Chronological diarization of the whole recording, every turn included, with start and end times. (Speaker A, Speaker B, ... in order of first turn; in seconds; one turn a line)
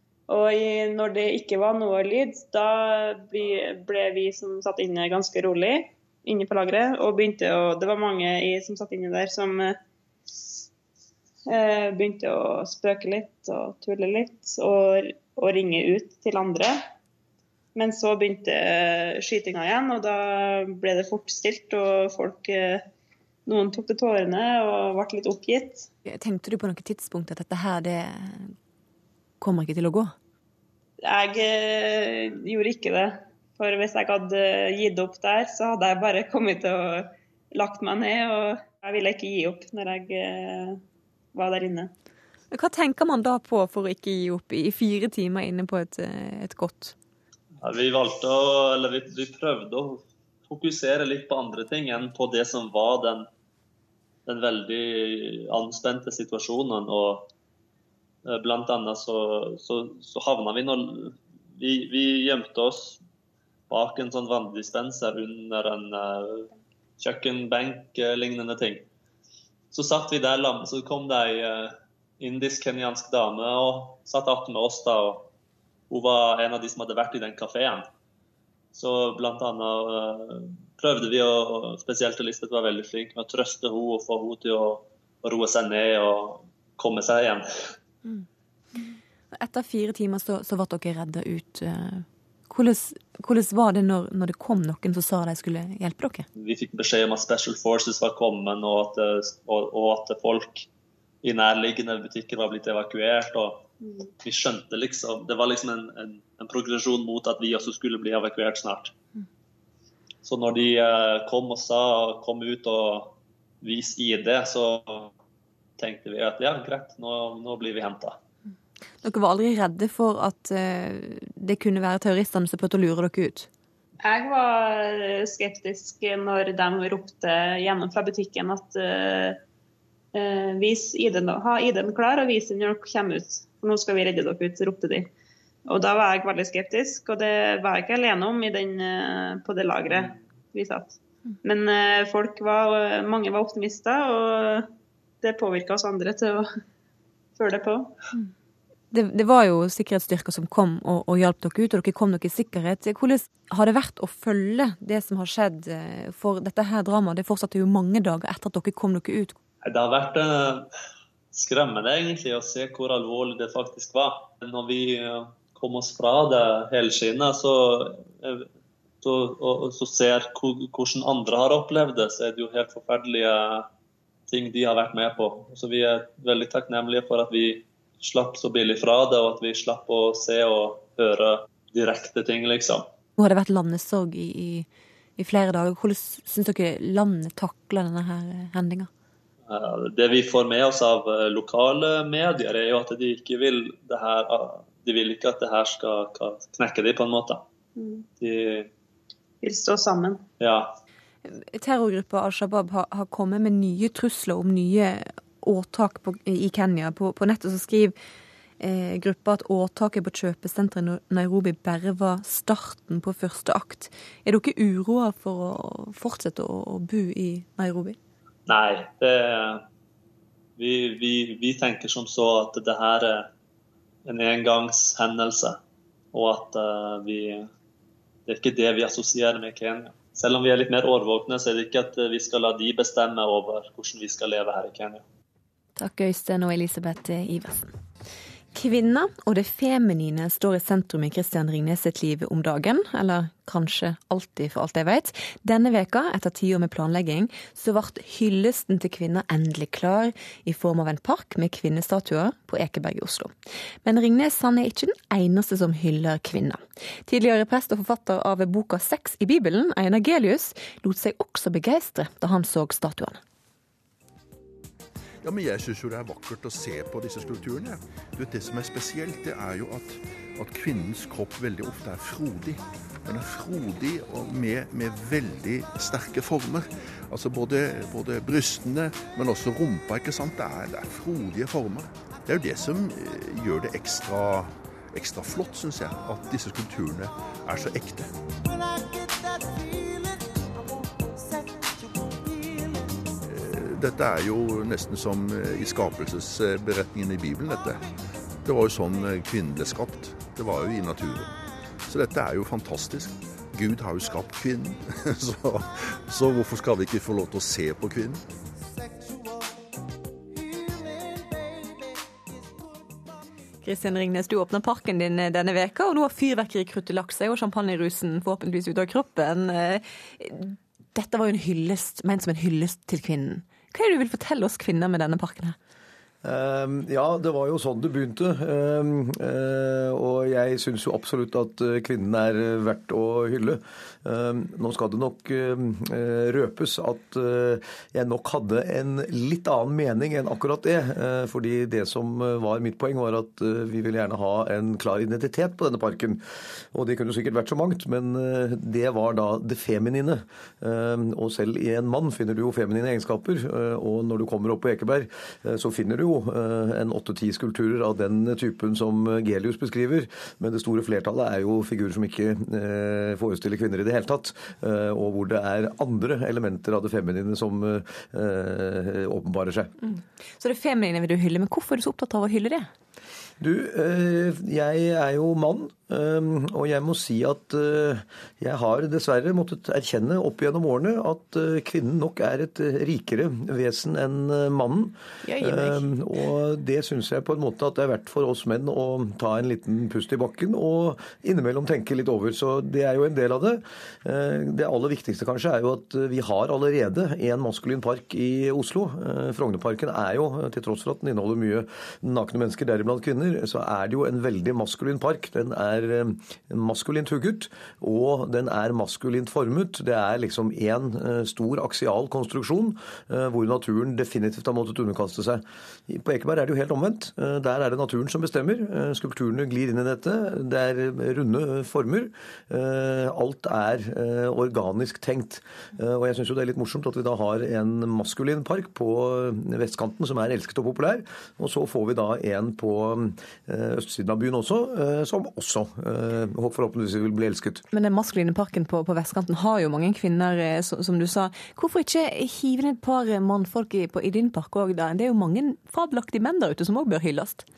Speaker A: 0.3-9.8
Speaker A: 11.5-16.8
Speaker A: 17.7-22.9
Speaker A: 23.4-25.9
Speaker B: 26.1-28.5
Speaker B: 29.4-30.1
Speaker A: 31.0-40.8
Speaker A: 41.3-41.9
Speaker B: 42.5-46.9
Speaker C: 47.6-53.3
Speaker C: 54.2-57.3
Speaker C: 58.2-63.0
Speaker C: 63.7-68.8
Speaker C: 69.7-75.3
Speaker C: 75.9-77.9
Speaker C: 78.7-87.7
Speaker B: 89.3-96.2
Speaker C: 96.4-100.7
Speaker C: 101.2-103.6
Speaker A: 103.8-104.1
Speaker C: 104.2-108.9
Speaker C: 110.2-115.1
Speaker C: 115.8-118.2
Speaker B: 119.0-123.5
Speaker A: 124.0-129.4
Speaker A: 130.1-135.1
Speaker A: 135.7-144.7
Speaker A: 145.2-146.5
Speaker A: 147.3-147.9
Speaker B: 148.9-159.3
Speaker C: 159.6-160.7
Speaker C: 161.3-168.5
Speaker C: 169.0-173.7
Speaker C: 174.3-182.9
Speaker B: 183.2-184.7
Speaker B: 185.2-188.9
Speaker C: 189.5-197.4
Speaker A: 197.8-198.1
Speaker C: 198.2-198.7
Speaker A: 199.4-200.2
Speaker C: 200.4-200.7
Speaker B: 201.2-207.9
Speaker B: 208.6-218.0
Speaker C: 218.5-219.6
Speaker C: 220.6-223.3
Speaker C: 224.1-225.6
Speaker C: 226.1-227.5
Speaker C: 228.2-235.0
Speaker B: 235.8-237.7
Speaker B: 238.5-263.2
Speaker D: 265.2-288.1
Speaker D: 293.2-297.9
Speaker D: 298.4-301.3
Speaker D: 301.9-308.2
Speaker B: 313.6-325.6
Speaker E: 326.2-369.7
Speaker B: 369.8-372.7
Speaker E: 373.4-437.6
Speaker B: 385.2-385.8
Speaker B: 437.7-447.4